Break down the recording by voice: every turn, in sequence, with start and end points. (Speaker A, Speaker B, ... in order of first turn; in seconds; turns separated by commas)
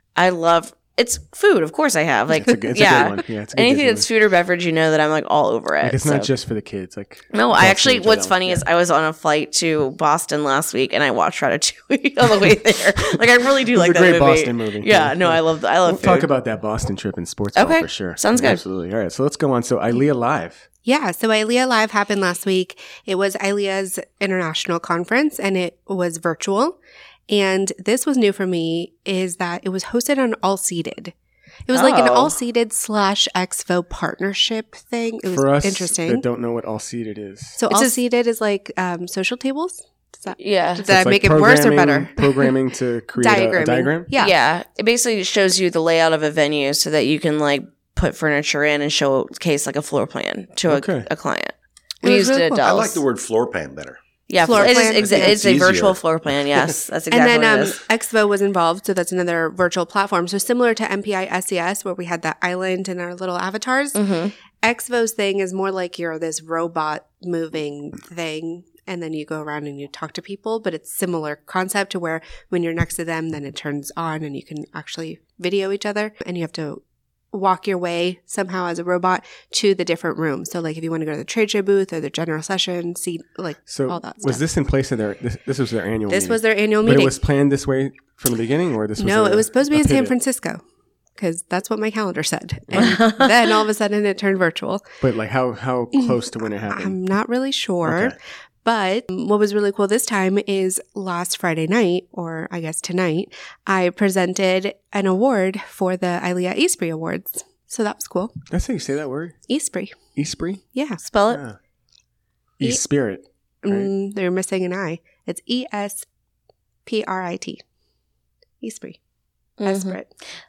Speaker A: 0.1-6.3, Speaker B: 2.3-4.1, Speaker B: 5.8-8.6, Speaker A: 7.3-16.3, Speaker B: 13.7-20.6, Speaker A: 17.6-18.6, Speaker C: 20.8-26.8, Speaker C: 27.3-31.1, Speaker C: 31.7-36.2, Speaker A: 31.7-32.4, Speaker B: 35.2-37.6, Speaker C: 37.6-42.5, Speaker A: 40.4-40.9, Speaker B: 40.9-44.1, Speaker C: 43.2-44.3, Speaker A: 44.1-53.0, Speaker B: 50.7-51.1, Speaker C: 52.0-52.7, Speaker D: 52.6-56.7, Speaker A: 54.3-57.8, Speaker C: 54.4-55.4, Speaker C: 57.1-84.4, Speaker A: 63.9-64.3, Speaker B: 83.7-90.1, Speaker C: 86.1-87.2, Speaker C: 89.0-90.6, Speaker C: 91.2-94.8, Speaker B: 92.7-93.0, Speaker A: 92.8-93.3, Speaker B: 95.0-97.0, Speaker C: 96.7-108.3, Speaker B: 97.8-98.2, Speaker B: 108.5-109.3, Speaker C: 109.5-110.0, Speaker B: 110.2-110.6, Speaker C: 110.7-111.0, Speaker A: 111.0-111.4, Speaker B: 111.3-111.5, Speaker B: 112.6-113.9, Speaker C: 113.6-116.0, Speaker C: 116.8-117.6, Speaker C: 118.6-119.0, Speaker A: 119.6-120.0, Speaker C: 119.6-120.1